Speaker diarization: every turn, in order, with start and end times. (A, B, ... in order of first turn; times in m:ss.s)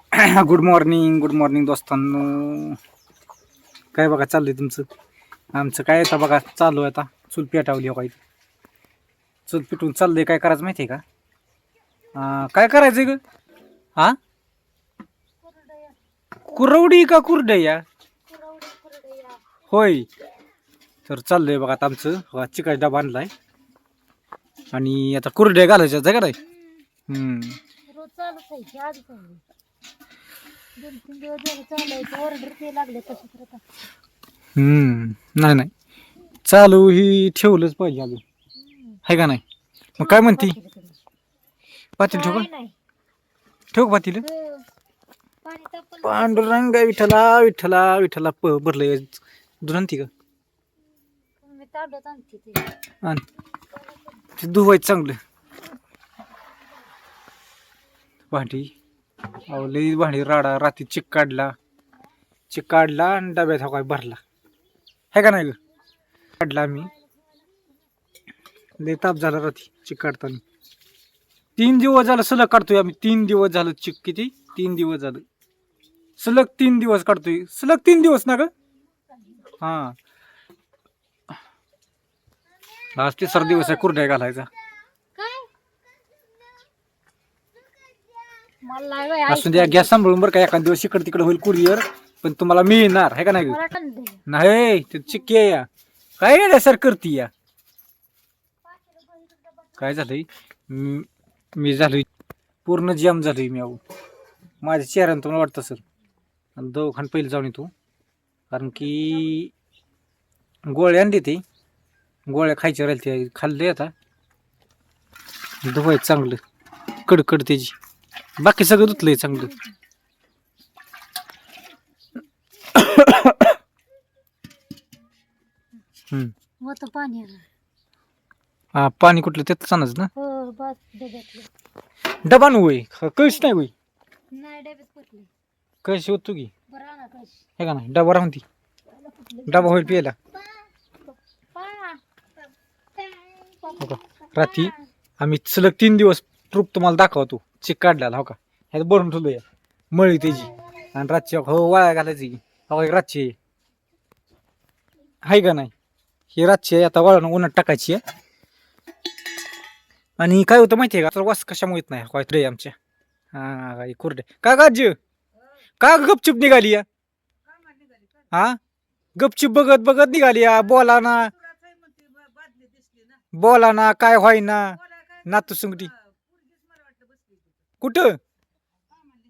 0:00.1-0:02.8 A
0:03.9-0:04.8 A
0:05.5-0:08.2 A
0:09.5-0:11.0 A
0:12.2-0:13.2 A
0:15.4-0:16.0 B
0:16.5-0:17.8 A
0:18.3-0:19.4 B
0:19.7-0:20.1 A
0:21.1-0:23.3 A
0:24.7-0:26.4 A
0:27.1-0:27.6 A
0:27.9-0:29.4 B
0:30.8-0:33.6 B
0:34.6-0:35.7 A
0:36.5-0:38.2 A
0:38.6-0:39.0 B
0:39.0-0:39.4 A
0:40.0-0:41.0 B
0:40.0-0:40.6 A
0:42.0-0:42.5 A
0:42.1-0:42.8 B
0:43.7-0:44.2 A
0:44.2-0:44.7 B
0:45.4-0:46.6 B
0:46.0-0:50.1 A
0:51.4-0:52.8 B
0:54.4-0:55.2 A
0:58.3-0:58.7 A
0:59.5-1:01.5 A
1:02.5-1:04.2 A
1:05.1-1:05.6 A
1:06.4-1:06.9 A
1:08.8-1:10.4 A
1:11.6-1:15.2 A
1:16.2-1:18.5 A
1:19.0-1:19.6 B
1:19.6-1:20.0 A
1:23.0-1:24.5 A
1:23.4-1:23.8 B
1:25.2-1:25.5 B
1:28.4-1:29.9 B
1:29.3-1:33.6 A
1:33.5-1:34.2 B
1:34.3-1:35.7 A
1:36.2-1:37.3 A
1:38.6-1:40.0 B
1:39.8-1:42.1 A
1:42.6-1:43.8 A
1:44.6-1:45.8 A
1:46.6-1:47.7 A
1:48.5-1:49.5 A
1:50.7-1:51.4 A
1:52.3-1:53.9 A
1:55.6-1:56.4 A
1:57.0-1:57.7 A
1:58.4-1:59.5 A
1:58.8-1:59.8 B
2:02.7-2:03.5 A
2:06.6-2:07.5 B
2:08.7-2:10.1 A
2:10.2-2:11.5 B
2:12.2-2:13.7 A
2:14.3-2:15.3 B
2:15.8-2:16.5 A
2:16.7-2:17.5 B
2:17.6-2:18.4 A
2:18.9-2:22.0 B
2:19.5-2:20.1 A
2:23.0-2:24.9 B
2:23.8-2:33.4 A
2:35.2-2:35.7 A
2:36.3-2:38.0 A
2:40.2-2:42.8 A
2:43.3-2:45.0 A
2:45.8-2:46.9 A
2:48.3-2:48.6 A
2:49.2-2:51.4 A
2:53.3-2:55.9 A
2:57.8-2:58.2 A